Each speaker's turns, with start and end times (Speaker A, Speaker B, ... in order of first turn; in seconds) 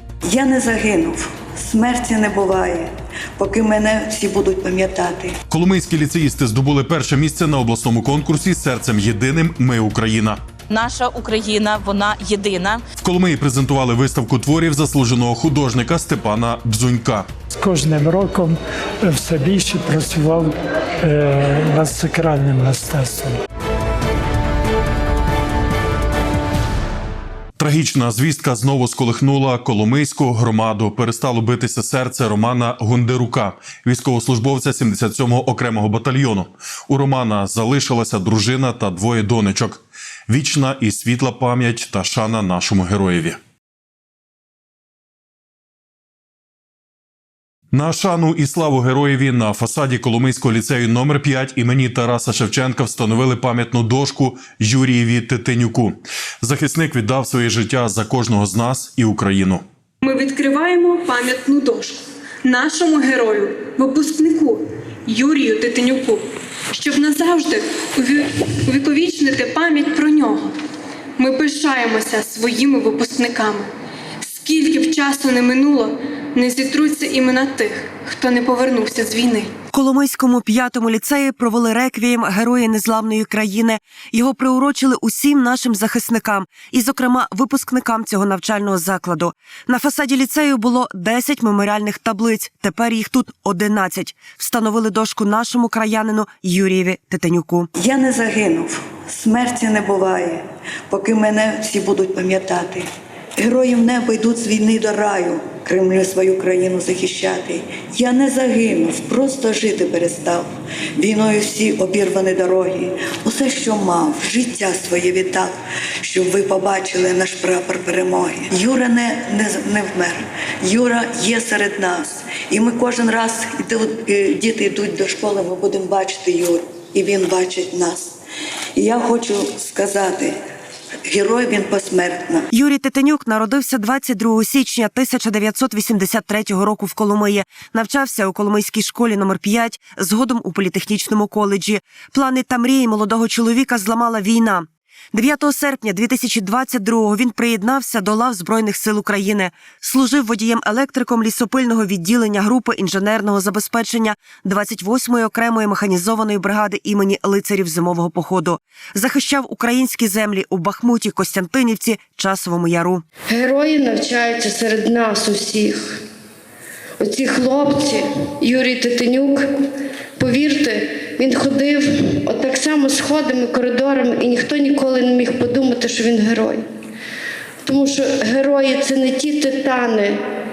Speaker A: 0.2-5.3, 97.8-102.9, 103.4-128.2, 128.8-130.4, 131.0-132.4
Speaker B: 5.5-10.4, 13.0-17.3, 27.6-43.4, 47.7-59.6
Speaker C: 10.7-12.8
Speaker D: 17.5-23.4
Speaker E: 60.0-66.2, 66.8-70.5, 71.2-73.7, 74.5-79.5
Speaker F: 79.7-97.7, 132.5-163.0
Speaker G: 163.3-166.0, 167.0-169.4, 170.2-176.7, 177.6-180.2